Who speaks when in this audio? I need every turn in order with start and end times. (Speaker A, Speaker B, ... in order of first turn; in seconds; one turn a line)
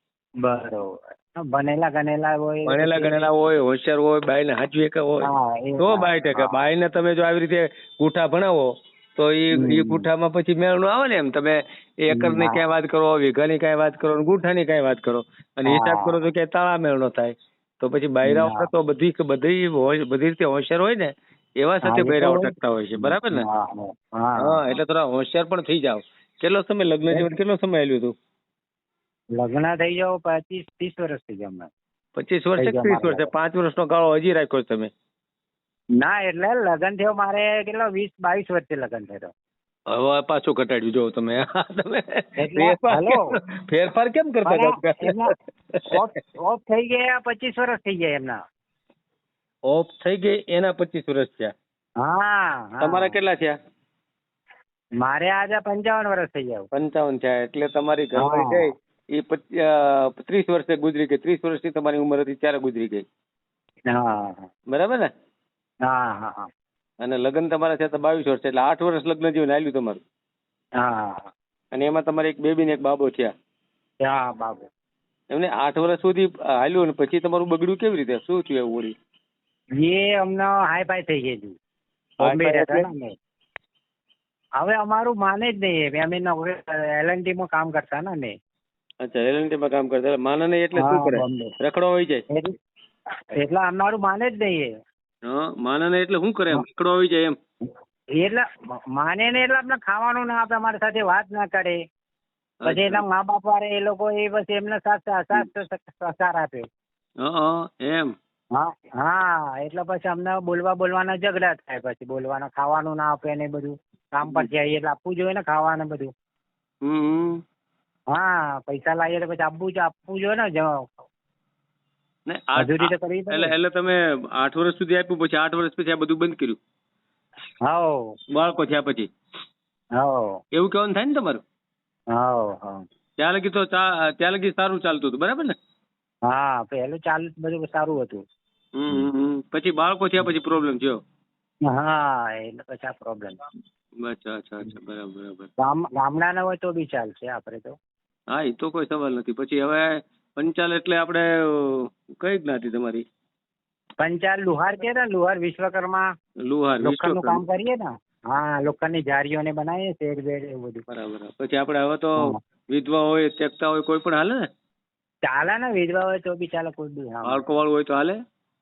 Speaker A: 0.4-3.3
Speaker B: 2.6-23.4
Speaker A: 5.2-6.6
Speaker A: 9.5-10.1
Speaker A: 12.1-12.6
Speaker A: 15.7-16.2
Speaker A: 18.2-18.7
Speaker A: 21.8-24.7
Speaker B: 24.4-28.1
Speaker A: 29.3-31.7
Speaker B: 32.1-34.9
Speaker A: 32.6-33.3
Speaker A: 36.0-39.3
Speaker B: 39.9-45.8
Speaker A: 42.4-43.3
Speaker A: 44.4-45.3
Speaker A: 45.9-48.4
Speaker B: 49.7-51.5
Speaker A: 52.0-53.2
Speaker B: 52.8-53.5
Speaker A: 55.0-56.7
Speaker B: 56.7-63.0
Speaker A: 58.2-58.7
Speaker A: 63.9-64.5
Speaker B: 64.7-65.1
Speaker A: 65.8-66.5
Speaker B: 67.0-70.0
Speaker A: 70.8-71.3
Speaker B: 71.7-73.3
Speaker A: 74.0-74.7
Speaker B: 75.3-78.9
Speaker A: 79.8-81.5
Speaker B: 82.2-82.9
Speaker A: 82.2-83.1
Speaker A: 84.6-88.3
Speaker B: 89.0-92.2
Speaker A: 90.7-91.5
Speaker A: 93.4-94.7
Speaker B: 95.3-97.4
Speaker A: 98.2-101.8
Speaker B: 102.6-103.0
Speaker A: 102.6-106.7
Speaker B: 107.2-108.1
Speaker A: 108.5-116.1
Speaker B: 114.2-114.5
Speaker B: 116.8-117.4
Speaker A: 118.1-121.0
Speaker B: 122.3-126.6
Speaker A: 122.5-123.5
Speaker A: 127.6-128.1
Speaker B: 128.3-129.1
Speaker A: 130.0-130.4
Speaker B: 130.5-131.4
Speaker A: 132.1-132.8
Speaker B: 133.2-135.5
Speaker A: 136.3-138.2
Speaker B: 138.8-141.0
Speaker A: 141.7-143.4
Speaker B: 144.0-145.5
Speaker A: 145.6-147.8
Speaker B: 148.3-153.0
Speaker A: 154.0-156.1
Speaker B: 156.5-157.4
Speaker A: 156.8-160.8
Speaker B: 160.9-164.4
Speaker A: 165.2-167.4
Speaker B: 167.2-168.2